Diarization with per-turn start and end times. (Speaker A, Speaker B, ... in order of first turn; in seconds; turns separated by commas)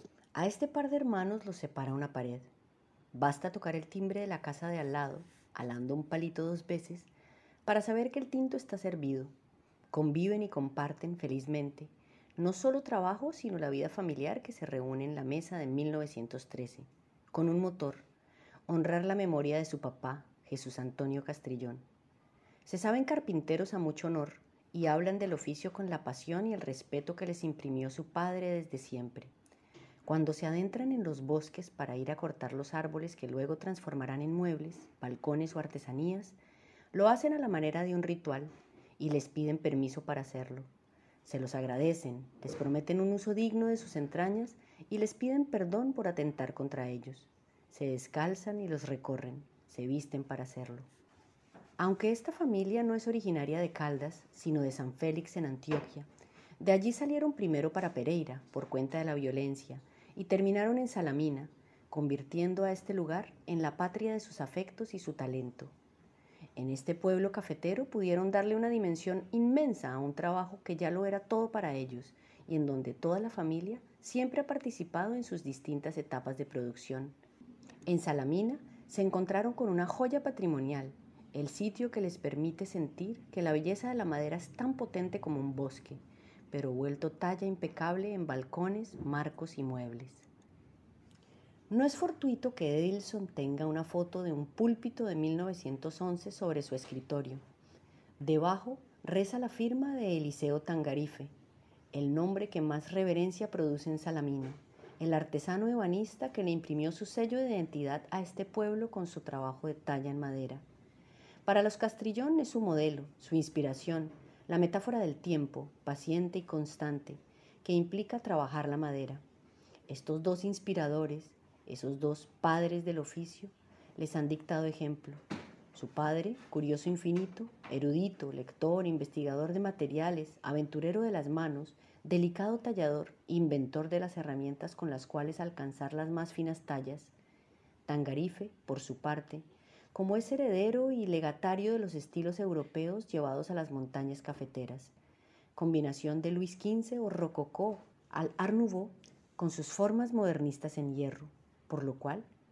Speaker A: 0.3-2.5, Speaker A: 3.1-7.1, Speaker A: 7.7-9.3, Speaker A: 9.9-18.1, Speaker A: 18.7-21.8, Speaker A: 22.6-29.3, Speaker A: 30.1-36.4, Speaker A: 36.9-40.7, Speaker A: 41.2-50.9, Speaker A: 51.8-56.1, Speaker A: 56.6-65.8, Speaker A: 66.6-77.2, Speaker A: 77.9-90.3, Speaker A: 91.7-97.4, Speaker A: 98.2-101.3, Speaker A: 101.9-110.6, Speaker A: 111.5-119.2, Speaker A: 119.9-125.2, Speaker A: 125.7-137.1, Speaker A: 137.9-144.9, Speaker A: 145.6-152.3